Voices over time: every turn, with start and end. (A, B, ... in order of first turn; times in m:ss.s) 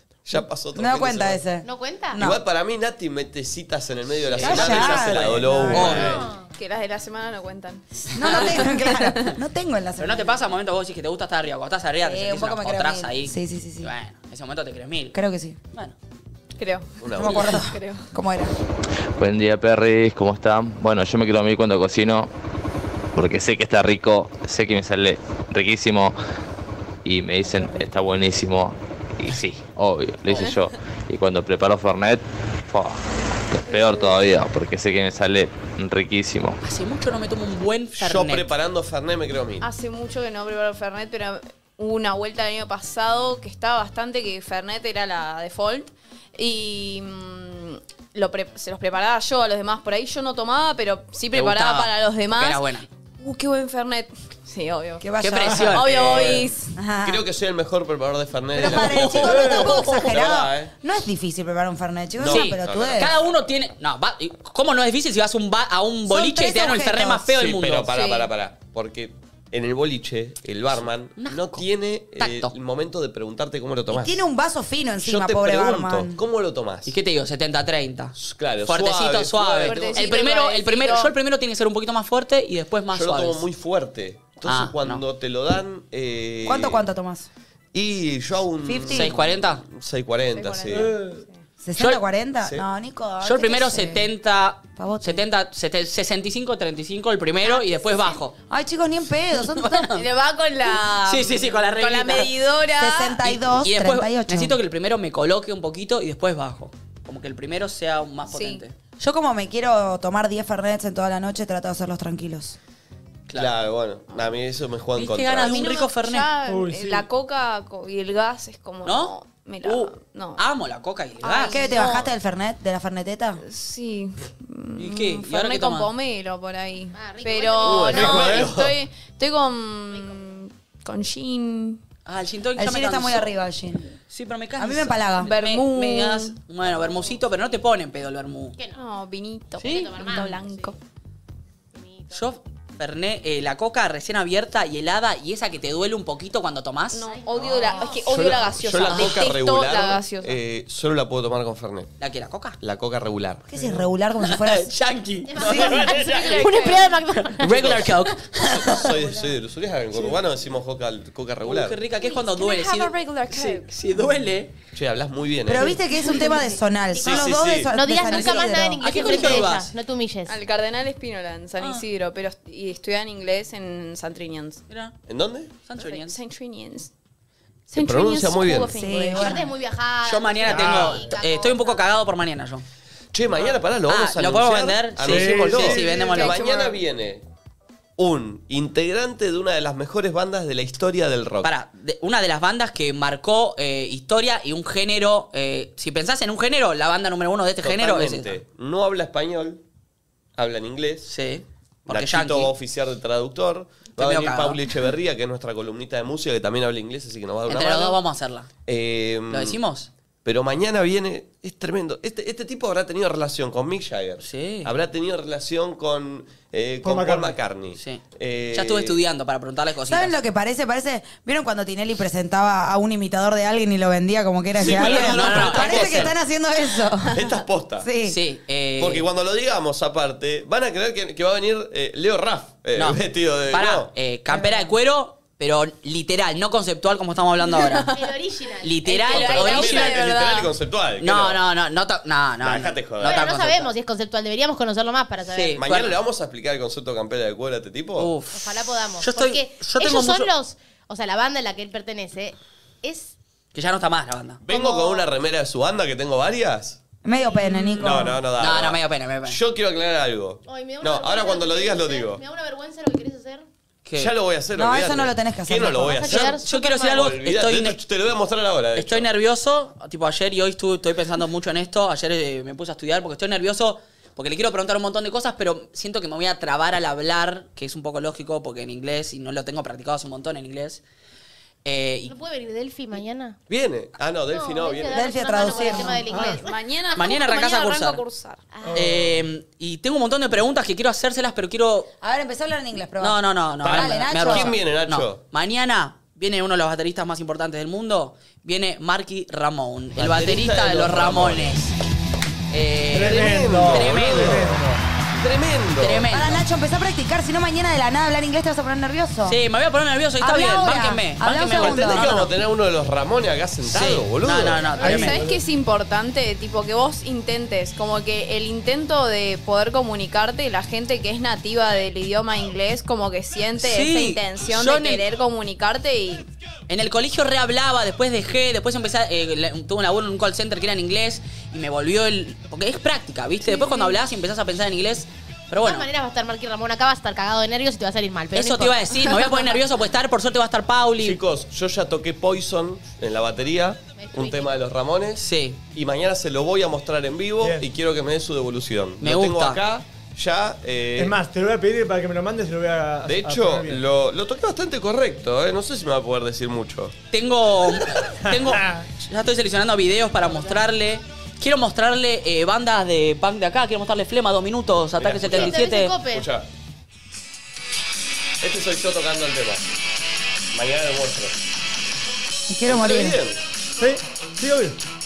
0:00.2-0:01.4 A
0:00.7-0:02.4 B
0:01.6-0:02.2 C
0:02.2-0:06.3 A
0:04.3-0:06.2 D
0:04.3-0:06.1 B
0:05.8-0:06.5 C
0:06.5-0:09.4 E
0:08.1-0:10.3 B
0:10.0-0:15.2 D
0:12.0-0:13.9 B
0:15.1-0:15.6 B
0:16.6-0:18.0 E
0:17.0-0:17.6 A
0:17.2-0:18.6 B
0:19.2-0:22.3 F
0:23.1-0:26.2 F
0:27.0-0:33.0 F
0:27.4-0:27.8 B
0:30.3-0:30.6 E
0:33.5-0:36.6 F
0:33.7-0:34.2 E
0:36.6-0:38.5 D
0:38.0-0:39.7 A
0:39.6-0:52.6 E
0:51.3-0:52.9 D
0:53.2-0:55.0 E
0:55.0-0:55.9 B
0:55.2-0:56.4 D
0:55.7-0:56.7 E
0:55.8-0:56.5 A
0:56.7-0:57.2 B
0:57.0-1:00.7 A
0:58.5-1:03.1 B
0:58.7-1:00.0 D
0:59.3-0:59.7 G
1:02.2-1:03.4 A
1:02.2-1:07.9 D
1:06.1-1:07.3 B
1:07.3-1:14.2 A
1:07.9-1:08.3 E
1:11.2-1:12.5 D
1:13.9-1:16.2 B
1:15.0-1:16.9 A
1:16.8-1:23.4 D
1:18.2-1:20.0 A
1:19.6-1:21.1 E
1:22.9-1:26.8 A
1:24.4-1:25.0 D
1:26.4-1:27.3 B
1:27.7-1:31.0 A
1:28.6-1:29.2 B
1:28.9-1:29.6 D
1:30.7-1:31.2 G
1:31.6-1:34.1 B
1:33.2-1:38.3 D
1:34.8-1:35.2 B
1:37.8-1:38.1 C
1:38.5-1:39.9 B
1:39.4-1:40.0 D
1:39.9-1:43.2 E
1:41.0-1:42.3 D
1:42.8-1:44.6 B
1:43.2-1:48.7 D
1:48.3-1:48.6 E
1:49.0-1:52.6 B
1:53.3-1:55.7 A
1:54.9-1:56.3 D
1:55.4-2:00.4 E
1:56.4-1:57.1 G
1:58.8-2:01.7 D
2:01.2-2:02.1 E
2:01.5-2:03.4 B
2:03.4-2:11.8 E
2:04.8-2:05.9 D
2:06.9-2:08.5 C
2:07.6-2:08.8 A
2:07.9-2:08.5 G
2:09.9-2:10.3 C
2:12.0-2:13.3 D
2:12.6-2:13.9 B
2:14.1-2:18.6 D
2:14.6-2:15.3 B
2:15.2-2:16.3 E
2:16.8-2:17.2 C
2:18.6-2:18.8 C
2:18.7-2:20.8 E
2:19.6-2:20.3 D
2:19.6-2:20.7 C
2:21.7-2:22.2 C
2:22.1-2:27.1 D
2:26.9-2:30.4 E
2:27.1-2:28.2 C
2:28.0-2:31.9 A
2:28.9-2:29.2 D
2:32.0-2:32.6 D
2:32.6-2:33.5 A
2:33.5-2:34.7 B
2:34.2-2:38.9 D
2:35.3-2:37.8 C
2:35.4-2:35.8 B
2:35.8-2:36.9 E
2:37.4-2:41.8 A
2:38.9-2:39.3 B
2:41.4-2:44.5 D
2:42.0-2:43.7 E
2:44.7-2:45.8 A
2:45.4-2:49.4 B
2:47.0-2:47.7 A
2:47.7-2:50.4 C
2:48.1-2:49.7 D
2:50.3-2:54.6 E
2:51.6-2:51.8 D
2:54.7-2:54.9 D
2:55.1-2:55.5 A
2:55.6-2:56.2 D
2:55.8-2:56.9 E
2:57.7-2:59.4 E
2:57.7-2:58.7 A
2:58.7-2:59.5 B
2:59.1-3:01.8 C
3:00.0-3:02.6 D
3:00.5-3:01.0 G
3:03.1-3:07.2 A
3:03.9-3:06.4 D
3:05.0-3:06.0 G
3:05.9-3:06.8 E
3:08.0-3:11.5 A
3:11.4-3:18.4 D
3:17.6-3:19.6 A
3:20.4-3:21.1 A
3:21.0-3:22.5 D
3:21.9-3:28.0 A
3:24.0-3:24.6 D
3:27.5-3:28.5 D
3:28.6-3:29.6 A
3:29.3-3:29.9 D
3:30.2-3:39.0 A
3:34.2-3:34.7 D
3:36.8-3:37.4 G
3:37.8-3:40.1 D
3:39.9-3:47.2 B
3:44.6-3:46.2 A
3:44.6-3:46.1 D
3:47.1-3:47.9 A
3:47.8-3:48.2 B
3:48.0-3:49.0 D
3:48.8-3:53.9 A
3:52.8-3:57.9 D
3:54.3-3:54.7 B
3:57.4-3:58.1 E
3:57.9-3:59.5 C
3:58.6-4:00.0 D
3:58.9-4:00.5 E
3:59.1-4:01.4 A
4:01.0-4:03.7 D
4:02.4-4:03.6 A
4:03.0-4:05.6 C
4:05.3-4:06.0 D
4:05.6-4:08.1 A
4:08.0-4:08.5 D
4:08.3-4:13.1 C
4:09.0-4:10.3 D
4:13.5-4:14.4 D
4:14.4-4:16.8 A
4:14.5-4:15.1 C
4:17.0-4:18.2 B
4:17.8-4:22.2 A
4:18.4-4:19.4 D
4:20.5-4:23.4 C
4:23.8-4:24.1 D
4:24.0-4:29.1 A
4:24.5-4:26.2 B
4:25.8-4:27.1 C
4:26.4-4:27.8 D
4:28.8-4:40.8 D
4:41.6-4:42.1 D
4:42.1-4:43.4 C
4:43.5-4:45.8 A
4:44.3-4:46.5 C
4:44.9-4:46.0 B
4:46.1-4:46.4 G
4:46.3-4:48.4 E
4:46.9-4:48.0 D
4:48.5-4:48.8 C
4:48.6-4:49.2 G
4:48.7-4:51.9 D
4:52.0-4:54.5 B
4:53.0-5:01.7 D
4:53.6-4:55.2 A
5:00.0-5:01.6 A
5:02.5-5:04.5 D
5:02.9-5:04.8 G
5:02.9-5:04.6 A
5:05.1-5:06.1 A
5:05.8-5:06.4 D
5:06.1-5:09.4 B
5:09.2-5:12.3 D
5:10.2-5:12.1 B
5:11.4-5:15.0 A
5:13.7-5:15.2 D
5:14.8-5:15.4 G
5:14.8-5:26.3 E
5:23.6-5:25.0 D
5:26.7-5:35.9 D
5:33.4-5:34.0 E
5:35.6-5:39.3 C
5:38.3-5:41.2 D
5:41.0-5:51.2 A
5:44.0-5:44.5 C
5:45.2-5:45.6 D
5:47.4-5:47.6 G
5:49.0-5:49.6 D
5:51.0-5:53.8 G
5:53.0-5:56.9 A
5:57.1-6:05.9 D
5:58.3-5:58.8 G
6:05.0-6:06.5 A
6:05.3-6:06.3 C
6:08.4-6:09.6 A
6:10.5-6:11.4 A
6:12.5-6:13.2 B
6:12.6-6:13.4 A
6:13.8-6:14.8 G